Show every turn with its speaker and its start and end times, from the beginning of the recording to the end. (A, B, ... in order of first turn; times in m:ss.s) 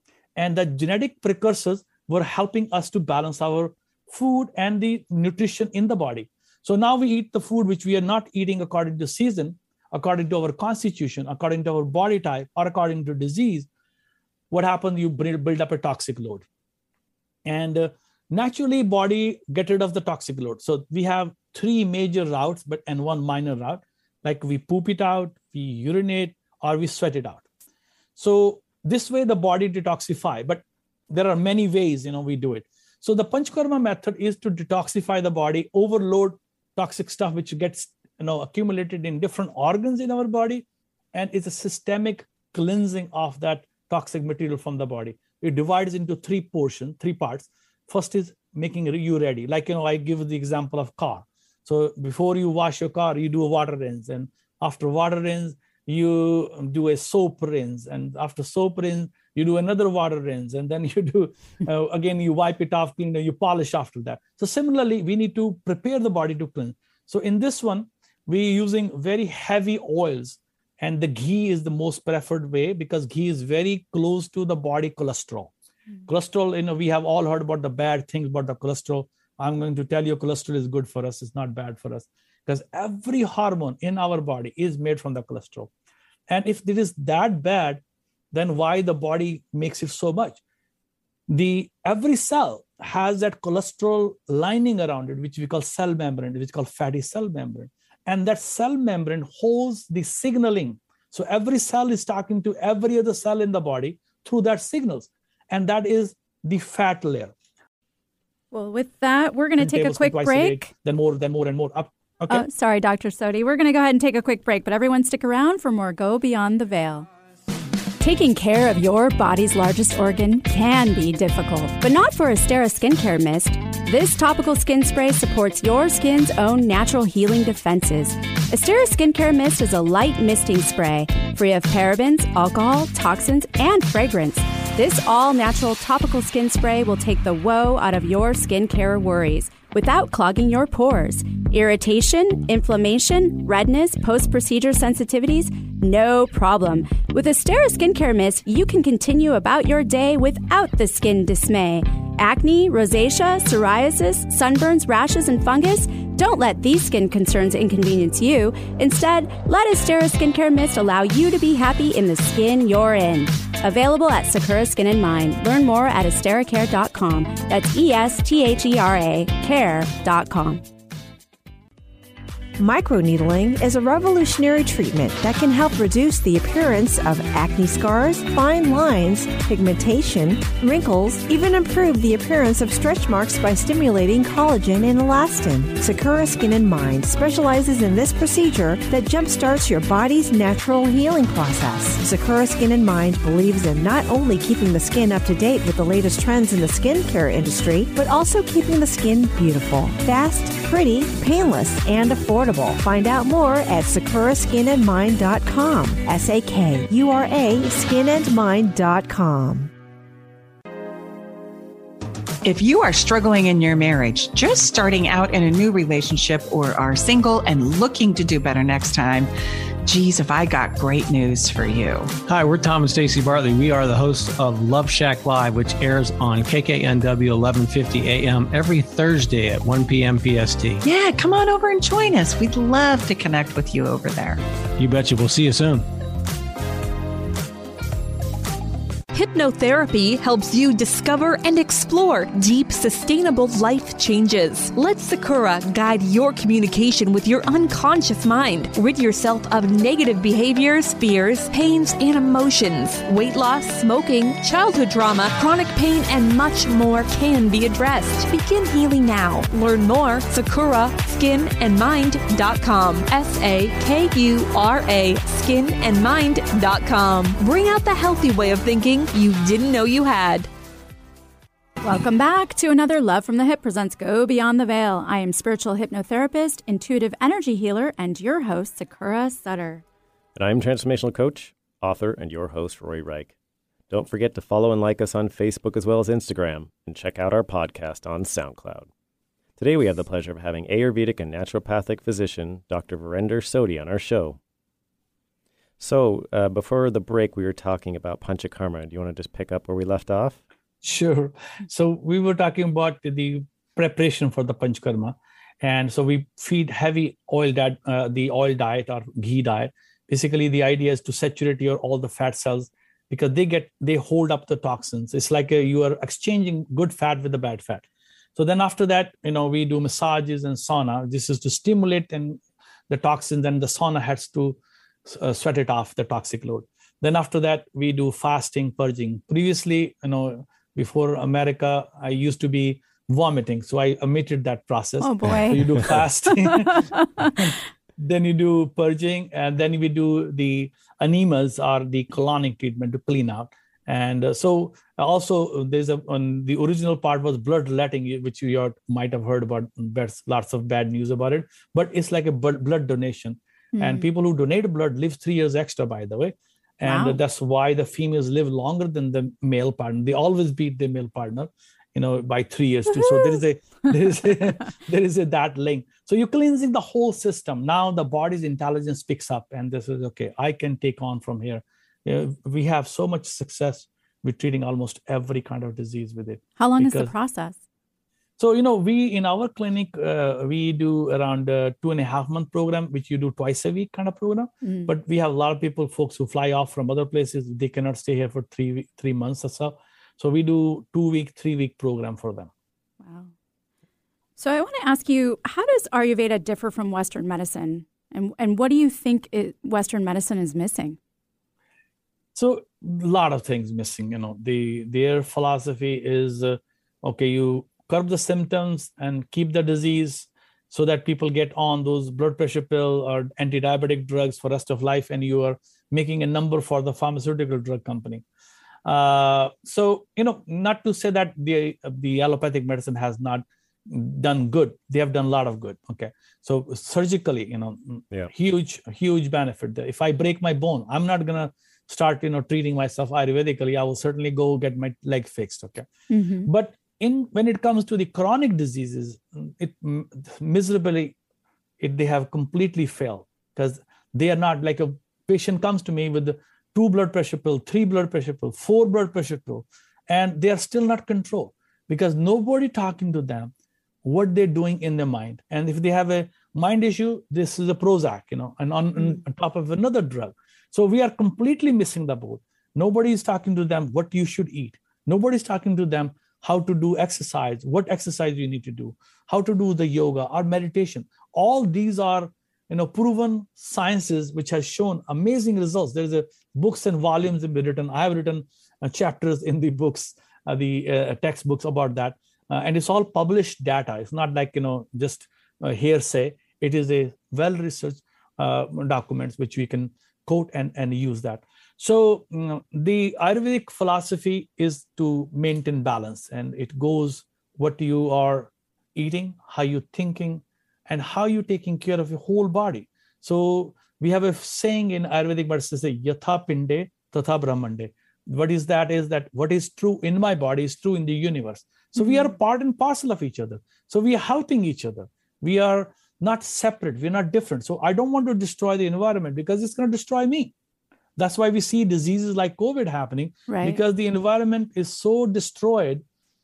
0:00.4-0:13.7 A
0:14.5-0:16.4 A
0:17.4-0:27.4 A
0:28.2-1:15.5 A
1:16.1-1:25.7 A
1:26.3-1:30.4 A
1:31.3-1:47.3 A
1:48.5-1:50.7 B
1:49.6-1:52.5 A
1:52.3-1:57.1 B
1:58.0-2:50.6 B
2:52.6-3:29.7 C
3:32.4-3:39.3 D
3:39.8-3:42.1 D
3:42.2-3:50.8 E
3:50.8-3:54.4 D
3:54.8-3:55.8 E
3:59.1-4:30.5 F
4:31.8-4:39.8 B
4:40.4-4:43.3 G
4:43.9-4:48.9 G
4:49.6-4:54.4 G
4:55.8-5:00.4 G
5:00.8-5:17.8 A
5:18.4-6:17.1 A
5:35.0-5:37.4 B
5:53.7-5:54.0 B
5:56.8-5:57.2 B
6:16.6-6:17.6 B
6:18.4-6:32.5 A
6:24.6-6:24.9 B
6:33.0-6:33.3 B
6:34.4-6:41.0 B
6:42.3-6:58.2 A
6:58.8-7:15.9 A
7:16.1-7:16.5 B
7:16.4-7:21.1 A
7:21.8-7:33.5 A
7:34.0-8:40.5 A
8:32.0-8:32.3 B
8:41.2-8:46.0 A
8:43.5-8:43.8 B